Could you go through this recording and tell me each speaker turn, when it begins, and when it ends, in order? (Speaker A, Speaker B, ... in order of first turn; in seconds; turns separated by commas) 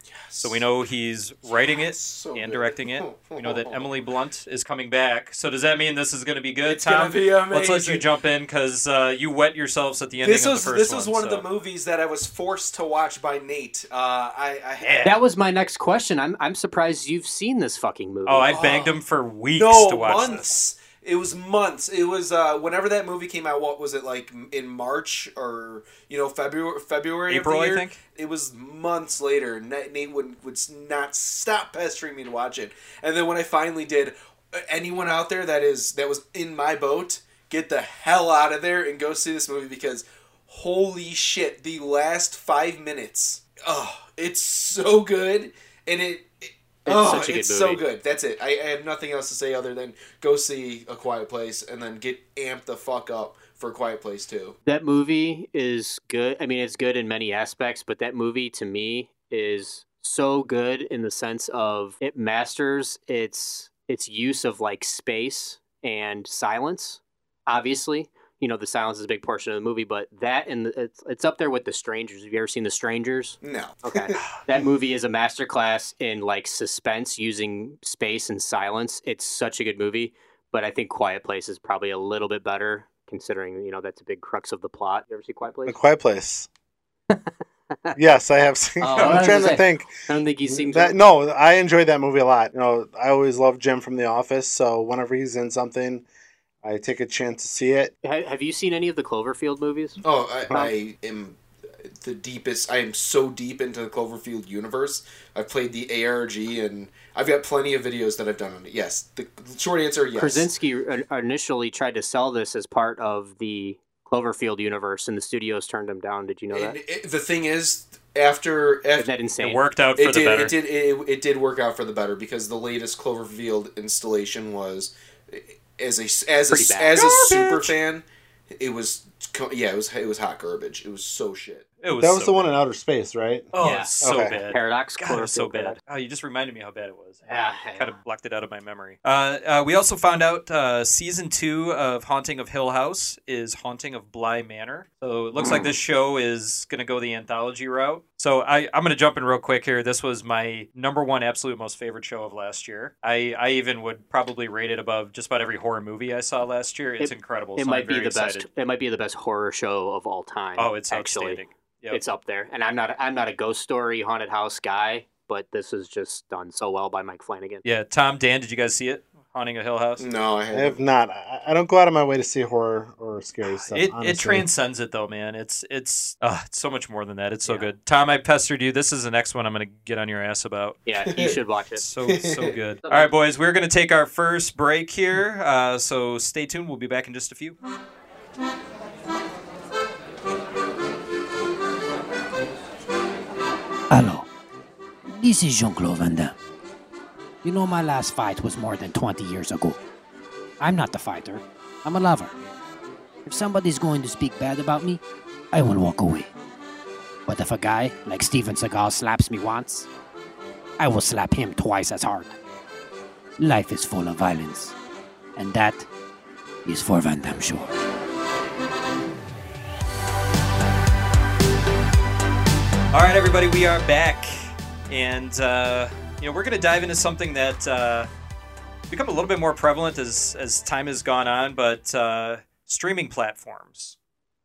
Speaker A: 0.1-0.6, Speaker B: 0.4-11.5, Speaker A: 1.5-3.9, Speaker A: 6.7-8.0, Speaker A: 10.2-15.1, Speaker B: 14.8-15.2, Speaker C: 15.0-18.6, Speaker B: 18.3-20.5, Speaker A: 18.5-19.0, Speaker A: 19.5-54.6, Speaker B: 27.3-28.0, Speaker C: 46.9-47.8, Speaker C: 54.6-85.8, Speaker A: 73.4-74.2, Speaker D: 85.7-86.5, Speaker D: 88.0-96.1, Speaker C: 88.8-91.0, Speaker B: 89.0-89.5, Speaker D: 96.6-97.9, Speaker C: 98.0-100.7, Speaker A: 100.0-110.5, Speaker C: 110.2-116.8, Speaker A: 116.5-119.1, Speaker C: 119.0-119.6, Speaker B: 119.4-120.5, Speaker A: 120.0-131.7, Speaker C: 126.5-127.0, Speaker B: 127.0-127.7, Speaker B: 131.8-132.5, Speaker D: 132.0-134.4, Speaker B: 133.5-158.5, Speaker C: 133.6-135.8, Speaker C: 137.3-137.9, Speaker C: 145.4-145.7, Speaker C: 157.0-167.6, Speaker B: 160.6-162.0, Speaker B: 167.7-170.1, Speaker A: 170.0-170.8, Speaker D: 170.5-174.5, Speaker B: 173.5-180.8, Speaker C: 180.9-181.8, Speaker A: 181.1-181.4, Speaker B: 181.8-187.6, Speaker A: 182.1-182.6, Speaker C: 182.8-183.1, Speaker E: 193.9-194.3, Speaker E: 195.1-196.3, Speaker E: 197.4-199.8, Speaker E: 200.6-202.3, Speaker E: 203.3-205.0, Speaker E: 205.5-206.3, Speaker E: 207.3-209.9, Speaker E: 210.8-212.4, Speaker E: 213.4-214.8, Speaker E: 215.4-215.9, Speaker E: 216.7-217.8, Speaker B: 222.9-228.1, Speaker B: 228.9-234.0